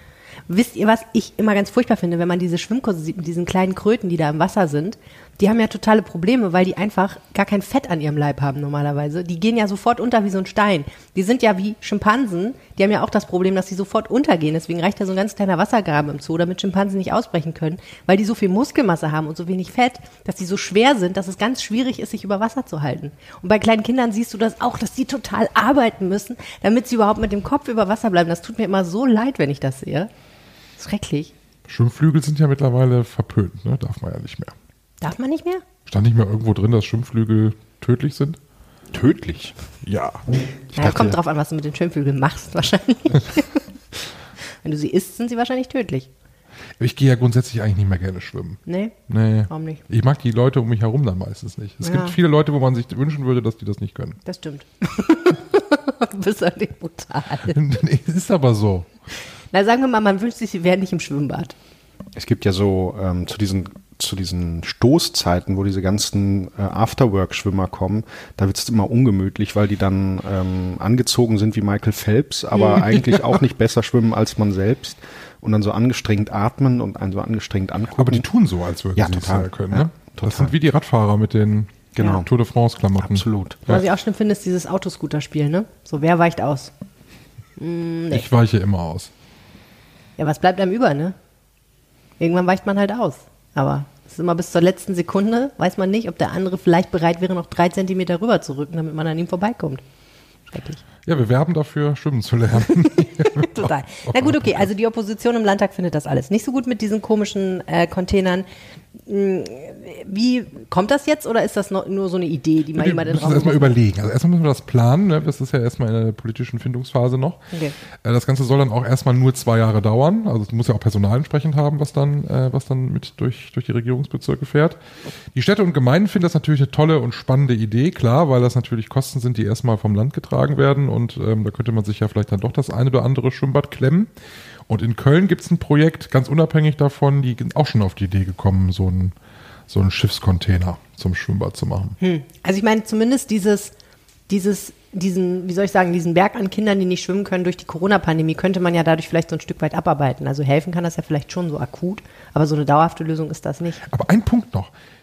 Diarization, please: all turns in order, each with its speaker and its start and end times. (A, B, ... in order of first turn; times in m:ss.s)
0:00.5-0:30.1 A
0:30.8-0:31.3 A
0:31.7-0:34.5 B
0:35.0-0:35.6 A
0:35.9-0:38.4 B
0:38.9-0:39.6 C
0:39.8-0:40.2 B
0:40.8-0:43.6 A
0:40.8-0:41.1 C
0:44.6-0:46.1 A
0:46.8-0:54.2 B
0:48.6-0:49.0 A
0:49.5-0:49.8 A
0:51.8-0:52.1 A
0:54.2-0:57.6 A
0:57.5-0:58.9 B
0:59.5-1:01.5 A
1:02.1-1:18.3 C
1:18.0-1:23.8 B
1:19.0-1:20.5 C
1:22.0-1:22.3 C
1:23.0-1:23.6 C
1:23.7-1:26.7 A
1:27.6-1:28.2 A
1:28.1-1:29.1 B
1:30.2-1:31.1 A
1:32.2-1:39.8 A
1:40.5-1:40.8 A
1:41.0-1:44.6 B
1:43.2-1:48.4 A
1:49.0-1:53.7 A
1:52.7-1:57.4 B
1:58.0-2:04.8 B
2:05.3-2:14.1 B
2:14.7-2:19.1 B
2:19.7-2:22.0 B
2:22.0-2:23.7 A
2:24.3-2:33.8 A
2:33.9-2:34.7 B